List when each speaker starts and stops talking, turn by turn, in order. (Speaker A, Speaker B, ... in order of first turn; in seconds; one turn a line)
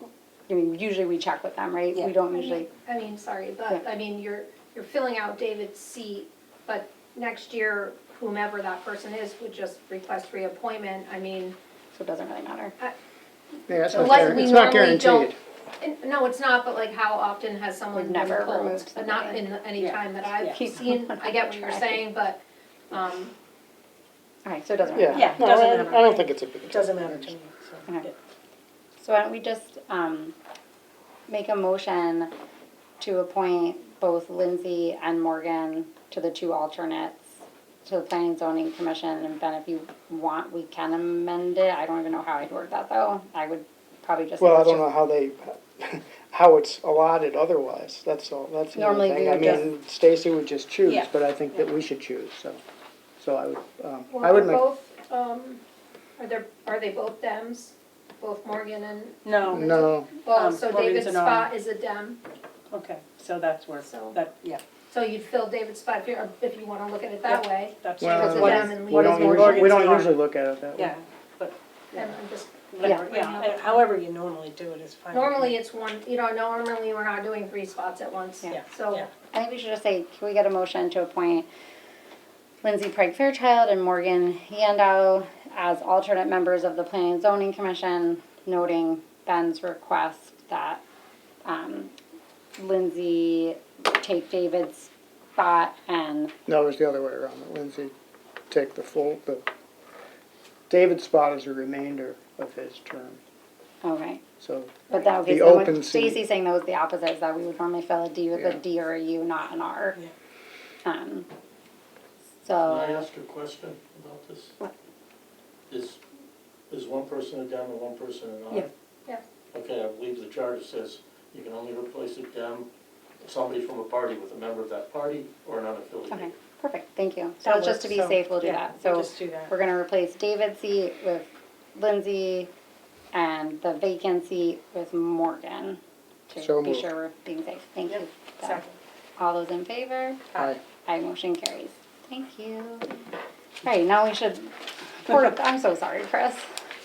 Speaker A: 0.5-2.7
Speaker B: 2.3-11.6
Speaker A: 11.9-12.8
Speaker C: 13.7-15.4
Speaker A: 13.9-14.6
Speaker B: 13.9-22.4
Speaker A: 17.9-19.4
Speaker D: 19.8-20.6
Speaker A: 20.4-22.0
Speaker B: 22.9-23.3
Speaker A: 24.4-25.5
Speaker C: 24.9-27.4
Speaker D: 25.1-28.2
Speaker A: 29.0-30.4
Speaker A: 31.3-32.3
Speaker A: 33.0-37.3
Speaker A: 37.9-44.9
Speaker C: 44.4-52.6
Speaker A: 48.7-49.7
Speaker D: 50.8-51.6
Speaker C: 53.2-54.7
Speaker B: 54.1-55.6
Speaker B: 56.2-62.2
Speaker D: 59.2-59.7
Speaker C: 59.5-60.1
Speaker D: 60.3-61.5
Speaker D: 62.7-64.6
Speaker B: 63.8-64.2
Speaker B: 64.9-70.0
Speaker D: 67.2-70.2
Speaker C: 68.0-71.0
Speaker D: 70.8-71.6
Speaker B: 71.9-73.8
Speaker D: 72.7-75.6
Speaker A: 72.8-73.1
Speaker B: 75.1-79.1
Speaker D: 78.5-79.1
Speaker A: 79.3-81.5
Speaker A: 82.6-90.8
Speaker A: 91.5-91.9
Speaker A: 92.6-96.3
Speaker C: 96.5-97.9
Speaker C: 98.5-99.5
Speaker C: 100.7-103.2
Speaker A: 103.8-104.2
Speaker C: 104.4-106.2
Speaker A: 104.9-110.0
Speaker A: 110.8-111.3
Speaker A: 112.4-113.1
Speaker E: 112.6-114.5
Speaker E: 115.7-116.0
Speaker E: 116.7-118.7
Speaker E: 119.5-122.7
Speaker E: 123.2-126.3
Speaker A: 126.1-132.5
Speaker D: 127.4-129.5
Speaker A: 133.1-138.6
Speaker C: 136.4-136.9
Speaker D: 137.9-138.8
Speaker A: 139.2-140.3
Speaker C: 140.3-140.6
Speaker A: 140.8-143.1
Speaker A: 143.6-146.5